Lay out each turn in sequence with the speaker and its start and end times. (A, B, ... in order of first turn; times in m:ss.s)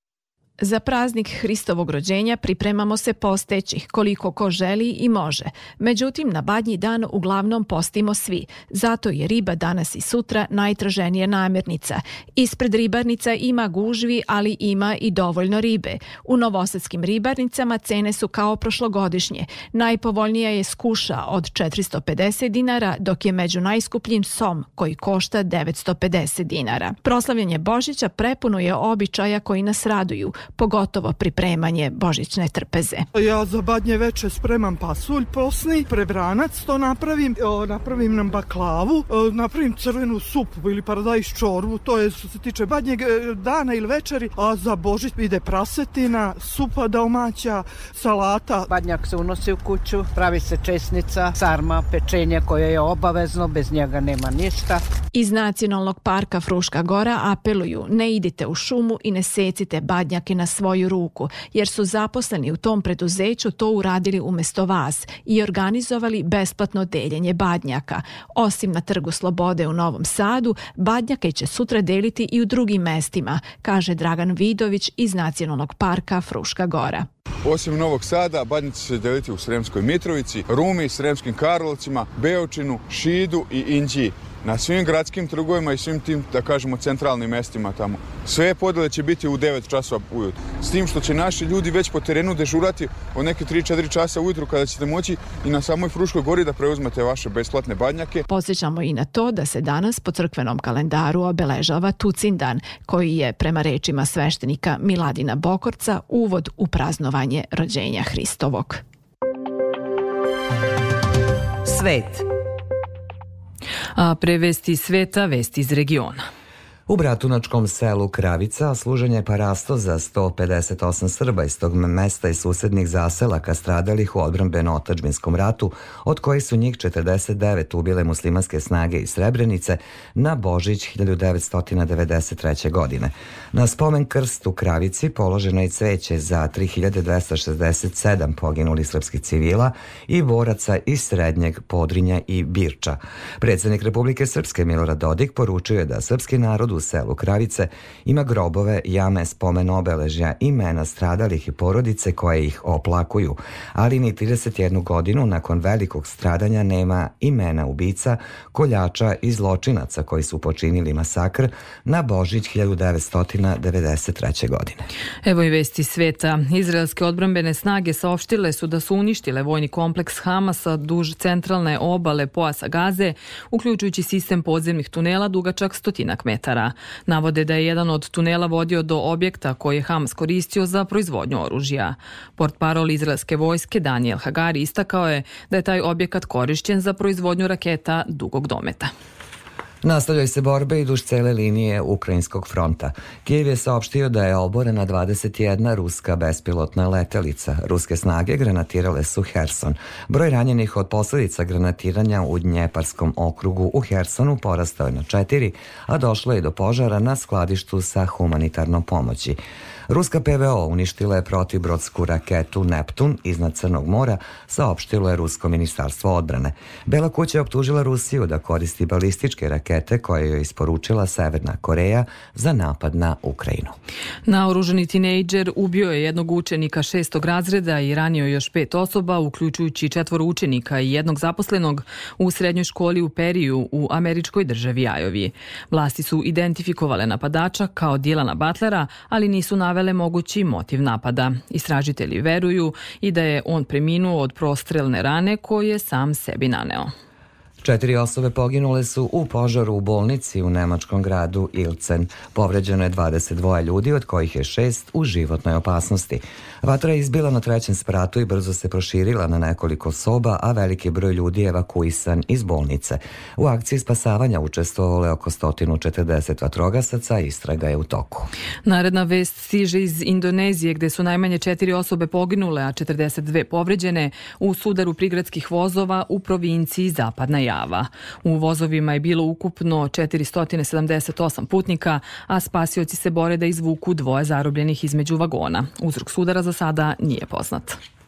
0:00.6-0:33.0 A
0:33.1-0:48.6 B
0:48.6-0:54.8 C
0:55.1-1:17.1 A
1:17.4-1:38.2 D
1:38.3-1:48.8 A
1:54.0-1:56.2 E
1:56.9-2:44.8 F
2:45.2-3:08.9 E
3:09.8-3:43.8 F
3:44.3-4:06.9 E
4:07.6-4:28.3 F
4:28.6-4:47.8 E